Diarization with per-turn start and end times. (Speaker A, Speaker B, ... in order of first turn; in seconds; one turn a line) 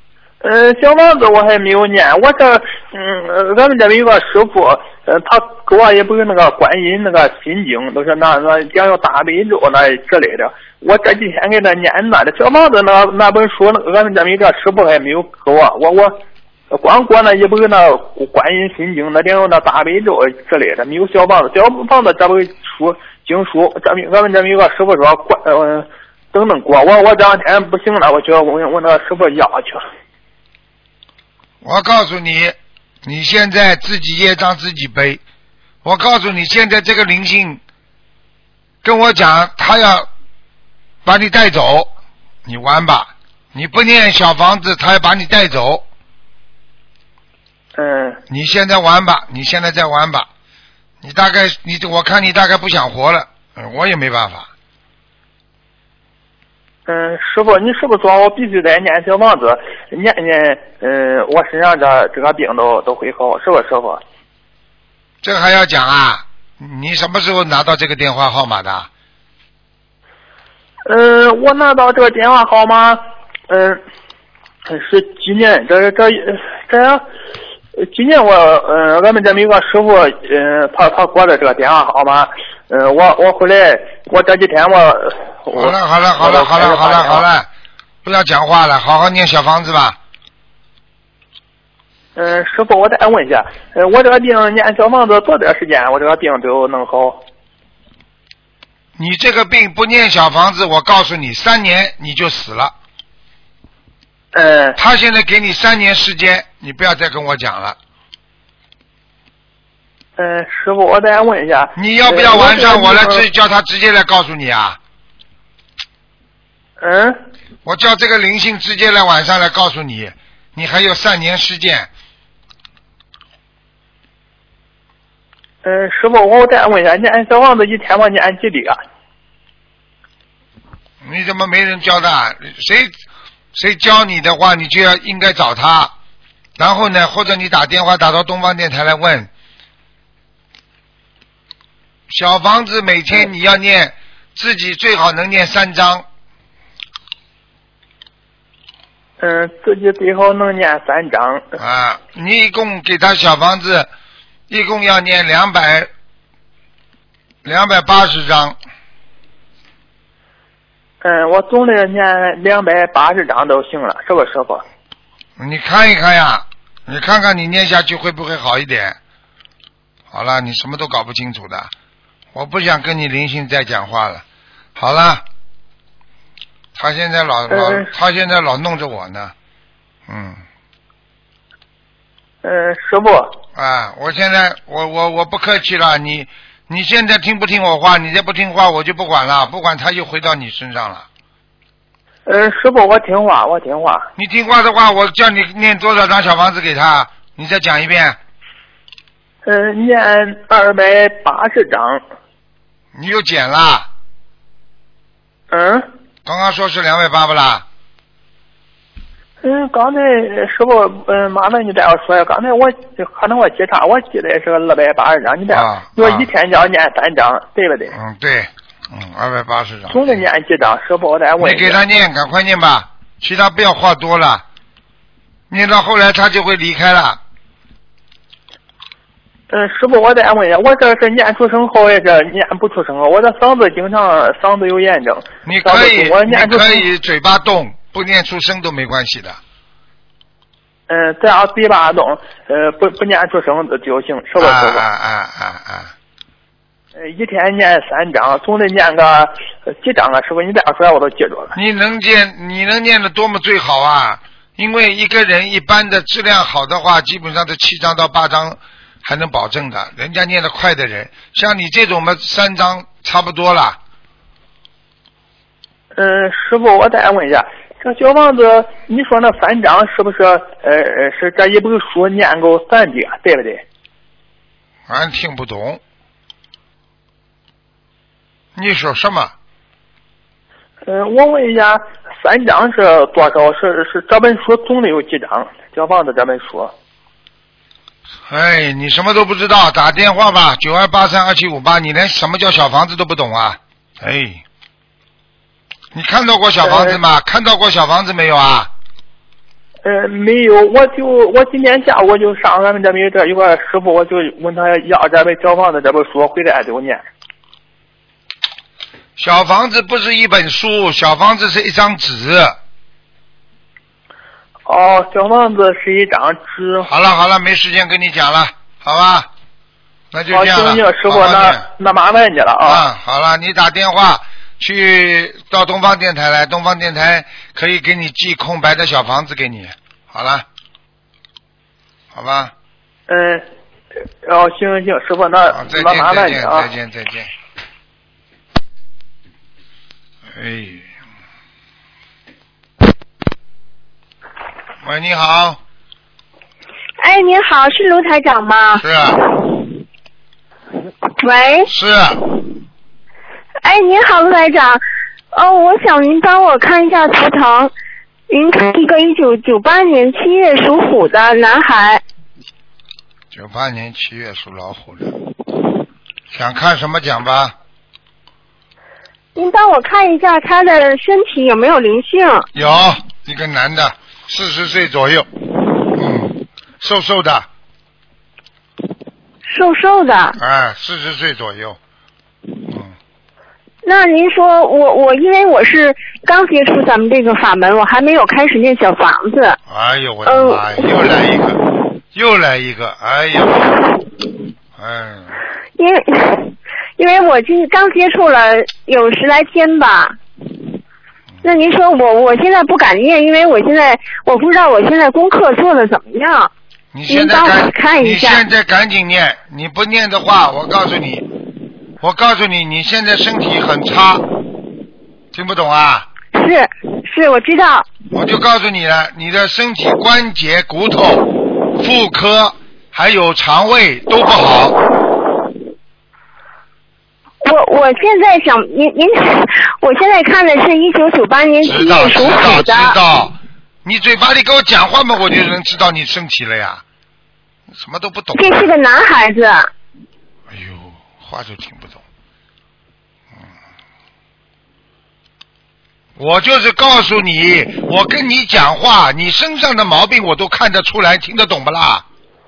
Speaker A: 0.4-29.8
Speaker B: 31.6-35.2
Speaker B: 35.8-37.6
Speaker B: 38.8-40.1
Speaker B: 41.0-41.9
Speaker B: 42.4-45.9
Speaker A: 47.8-48.2
Speaker B: 48.3-50.3
Speaker B: 51.0-54.5
Speaker A: 56.9-64.0
Speaker B: 65.2-68.9
Speaker A: 70.9-73.8
Speaker A: 74.7-77.0
Speaker A: 77.8-87.2
Speaker B: 85.5-87.5
Speaker B: 88.0-90.0
Speaker A: 92.2-97.2
Speaker B: 99.0-102.7
Speaker A: 104.3-104.8
Speaker B: 104.8-107.8
Speaker A: 110.2-113.2
Speaker B: 111.8-114.8
Speaker A: 116.8-117.2
Speaker B: 117.6-121.9
Speaker A: 125.6-128.8
Speaker B: 131.0-132.9
Speaker B: 133.5-135.9
Speaker B: 136.6-139.3
Speaker B: 142.1-146.0
Speaker A: 149.2-151.4
Speaker B: 151.6-153.9
Speaker B: 154.5-155.9
Speaker B: 157.4-158.6
Speaker A: 161.0-164.6
Speaker B: 165.4-169.0
Speaker B: 170.1-171.7
Speaker B: 172.3-174.2
Speaker B: 174.8-175.2
Speaker B: 176.7-179.3
Speaker A: 177.5-177.9
Speaker B: 180.1-180.4
Speaker A: 182.4-183.4
Speaker B: 183.5-191.1
Speaker A: 192.2-194.1
Speaker B: 194.2-198.2
Speaker A: 199.4-202.0
Speaker B: 202.9-203.9
Speaker A: 205.5-205.9
Speaker B: 206.2-207.7
Speaker A: 209.4-217.9
Speaker B: 215.5-216.3
Speaker B: 217.9-220.2
Speaker A: 219.9-221.8
Speaker B: 221.4-224.4
Speaker B: 225.5-227.2
Speaker A: 229.5-236.8
Speaker B: 235.4-239.4
Speaker A: 240.9-244.8
Speaker B: 244.4-245.9
Speaker A: 246.9-251.5
Speaker B: 251.5-263.8
Speaker A: 265.9-273.6
Speaker B: 274.9-275.8
Speaker B: 278.5-279.3
Speaker A: 280.8-286.7
Speaker B: 288.3-294.4
Speaker B: 295.9-298.7
Speaker A: 296.6-297.0
Speaker A: 299.8-307.0
Speaker B: 309.1-312.6
Speaker A: 314.7-316.9
Speaker B: 316.9-319.3
Speaker B: 320.1-321.6
Speaker A: 320.3-322.8
Speaker B: 322.6-330.4
Speaker B: 332.1-332.5
Speaker A: 333.1-333.4
Speaker A: 334.2-336.7
Speaker B: 335.5-337.3
Speaker B: 340.3-340.9
Speaker B: 344.8-345.6
Speaker C: 347.0-349.5
Speaker B: 348.8-349.2
Speaker C: 351.2-351.7
Speaker B: 351.7-352.2
Speaker C: 353.6-354.8
Speaker C: 355.3-357.7
Speaker C: 358.3-362.0
Speaker B: 363.3-365.1
Speaker B: 366.3-367.5
Speaker C: 369.4-372.5
Speaker B: 372.5-375.3
Speaker B: 375.9-377.5
Speaker C: 379.4-380.4
Speaker B: 380.4-381.8
Speaker B: 382.7-382.9
Speaker C: 383.8-389.6
Speaker B: 389.7-391.6
Speaker C: 390.2-391.0
Speaker B: 392.1-393.8
Speaker B: 394.8-395.4
Speaker C: 395.8-400.2
Speaker C: 401.4-406.5
Speaker B: 406.9-411.3
Speaker C: 407.1-408.4
Speaker B: 412.0-414.3
Speaker B: 415.3-416.1
Speaker C: 416.3-417.9
Speaker B: 418.1-424.8
Speaker C: 427.4-433.0
Speaker B: 431.6-436.8
Speaker B: 437.7-438.7
Speaker C: 438.3-439.7
Speaker B: 440.5-442.0
Speaker B: 446.2-452.0